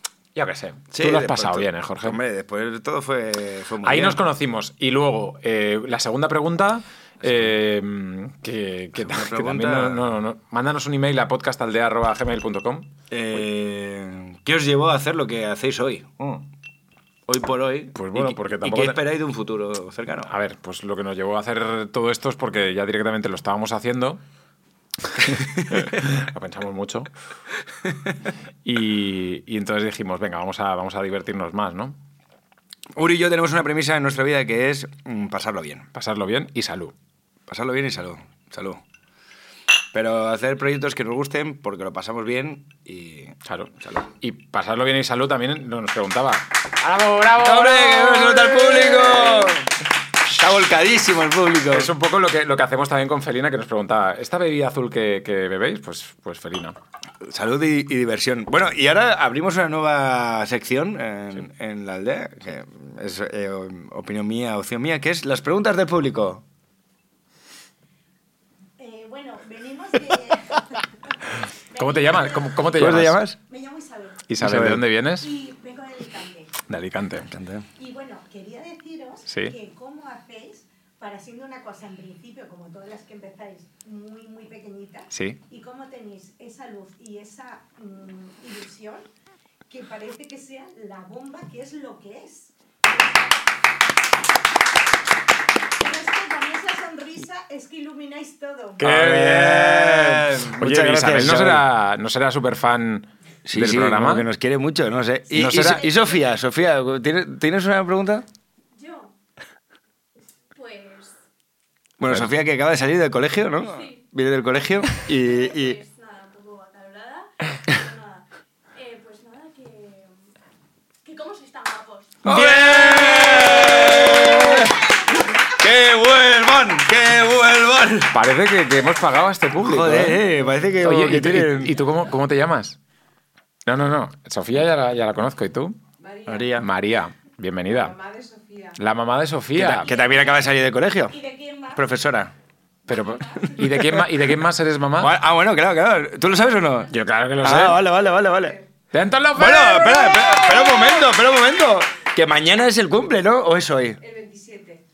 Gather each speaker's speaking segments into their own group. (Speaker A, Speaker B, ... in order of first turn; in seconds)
Speaker A: 0.3-2.2, 3.8-12.9, 17.9-19.0, 20.3-24.2, 25.1-27.1, 28.6-32.0, 35.9-36.9, 43.4-49.5, 51.7-56.8, 71.7-73.2, 74.3-75.3, 76.7-77.3, 79.3-79.5, 85.1-85.4, 98.8-104.3, 105.3-105.9, 122.2-124.3, 128.1-130.2, 130.8-132.8, 133.7-135.8, 136.5-137.9, 138.8-139.9, 142.9-145.2, 146.9-147.8, 148.9-150.3
Speaker B: 0.9-4.2, 9.0-10.1, 13.1-16.4, 17.3-20.3, 33.0-35.9, 37.5-38.8, 39.9-44.0, 47.4-49.7, 50.2-51.9, 57.2-66.4, 72.8-73.4, 74.4-74.8, 77.3-77.7, 98.8-101.7, 103.4-108.2, 112.0-115.8, 122.2-128.2, 129.6-131.8, 136.3-136.7, 139.5-141.2, 141.7-142.3, 143.6-144.1, 145.0-148.6, 149.3-154.0
Speaker C: 68.8-71.1, 71.7-76.6, 77.8-89.0, 89.7-93.3, 95.8-98.8, 124.1-124.5, 139.8-140.4, 141.1-141.8, 150.2-151.0
Speaker D: 108.7-109.1, 110.5-111.2, 115.3-120.1, 121.0-122.2
Speaker E: 136.0-136.6, 137.7-138.8, 154.0-154.8